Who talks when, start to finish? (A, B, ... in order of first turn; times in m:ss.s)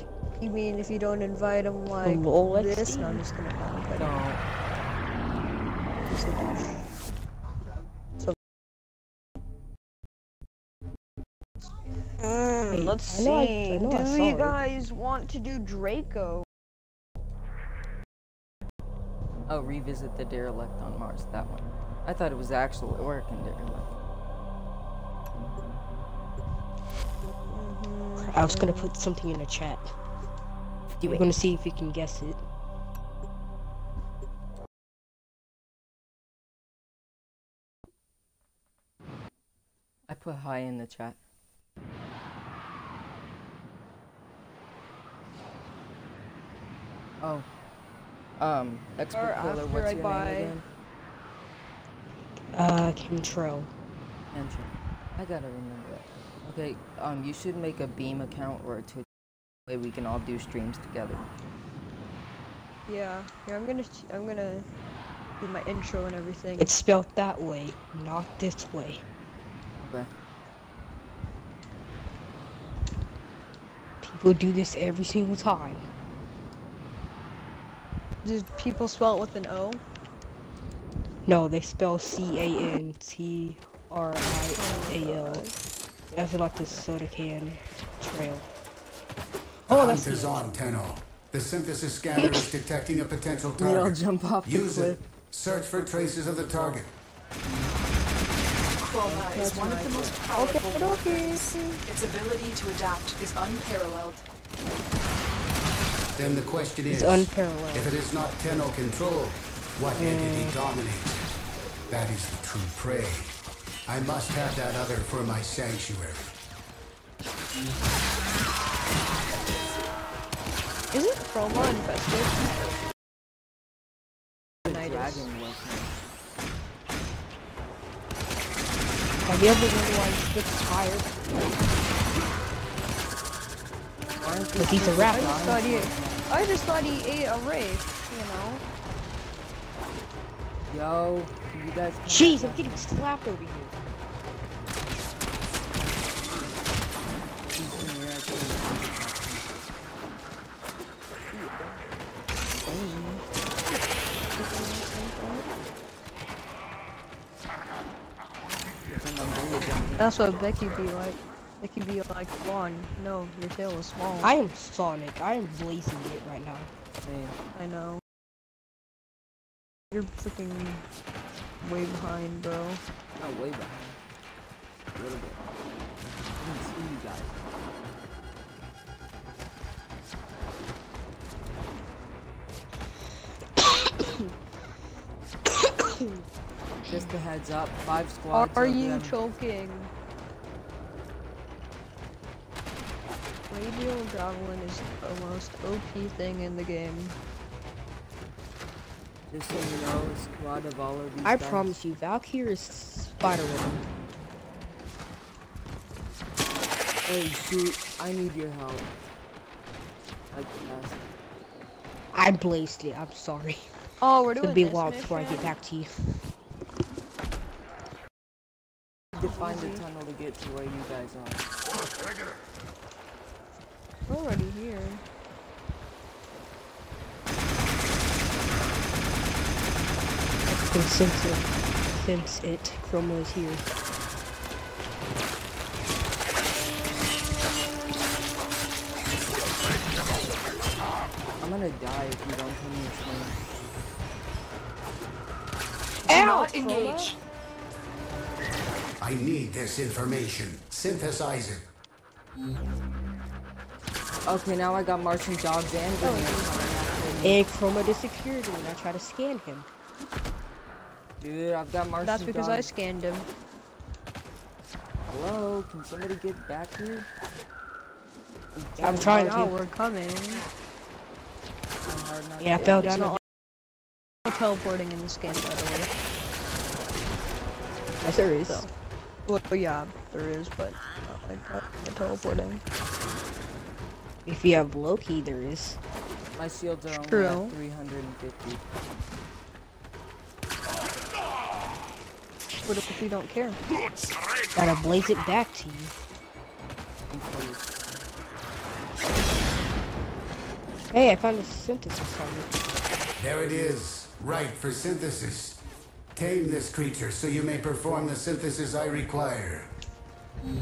0:00.4-0:04.2 A
0:02.0-0:03.2 B
0:04.0-0:04.4 C
0:06.0-0:06.9 A
0:12.2-0:16.5 A
0:12.7-0:14.6 B
0:19.5-0:23.9 C
0:27.5-0:28.9 A
0:28.2-0:29.9 B
0:31.0-0:32.4 B
0:40.1-0:41.2 C
0:47.2-0:47.5 C
0:48.4-0:50.6 C
0:49.1-0:50.6 A
0:52.5-0:53.7 B
0:54.3-0:59.0 C
0:59.7-1:01.3 C
1:02.9-1:04.7 A
1:05.4-1:06.7 A
1:06.6-1:09.0 B
1:09.8-1:10.1 C
1:14.0-1:15.9 B
1:18.2-1:19.8 A
1:21.2-1:25.5 B
1:24.5-1:25.6 A
1:26.1-1:28.4 B
1:29.7-1:30.5 B
1:29.7-1:36.9 D
1:33.6-1:36.8 C
1:38.8-1:44.2 E
1:39.0-1:40.2 C
1:40.4-1:41.8 A
1:46.2-1:51.3 D
1:46.9-1:47.9 B
1:49.9-1:50.6 B
1:51.9-1:53.3 D
1:53.8-1:56.3 D
2:00.9-2:02.7 A
2:04.6-2:05.3 A
2:04.6-2:05.9 C
2:09.2-2:11.1 B
2:14.2-2:16.2 C
2:14.6-2:15.5 B
2:14.9-2:18.6 A
2:20.7-2:22.8 C
2:22.0-2:23.8 B
2:27.5-2:29.6 C
2:31.3-2:31.7 A
2:32.6-2:33.2 C
2:34.4-2:35.5 A
2:38.8-2:40.2 C
2:40.0-2:44.3 A
2:44.2-2:46.7 B
2:47.0-2:47.4 C
2:47.5-2:48.0 A
2:49.9-2:50.8 A
2:51.6-2:52.8 A
2:53.2-2:54.0 C
2:54.9-2:55.4 C
2:56.4-2:57.4 C
3:03.6-3:04.2 B
3:05.6-3:06.2 B
3:06.8-3:09.1 C
3:08.3-3:09.9 A
3:13.5-3:17.2 A
3:19.3-3:21.7 C
3:21.2-3:23.8 B
3:27.0-3:28.9 C
3:30.3-3:31.0 C
3:32.1-3:33.7 B
3:34.0-3:35.5 A
3:34.4-3:36.0 B
3:39.1-3:41.4 C
3:39.2-3:39.8 A
3:44.1-3:45.0 A
3:50.5-3:53.6 B
4:01.4-4:03.3 C
4:06.1-4:07.1 A
4:06.1-4:07.2 E
4:09.0-4:11.6 D
4:14.2-4:17.4 C
4:16.0-4:16.7 A
4:17.2-4:19.7 B
4:21.2-4:22.7 C
4:22.0-4:23.3 A
4:25.0-4:27.1 C
4:28.5-4:29.4 C
4:28.8-4:29.6 B
4:29.0-4:30.4 A
4:31.8-4:33.0 C
4:32.4-4:33.2 B
4:32.8-4:33.2 A
4:34.2-4:35.9 A
4:38.0-4:38.7 B
4:38.4-4:38.7 A
4:39.2-4:42.6 A
4:44.2-4:45.8 B
4:46.3-4:48.6 C
4:46.9-4:47.6 A
4:52.6-4:53.6 A
4:54.5-4:55.9 B
4:57.1-4:57.8 C
5:00.9-5:02.6 B
5:03.2-5:05.6 D
5:06.1-5:09.7 D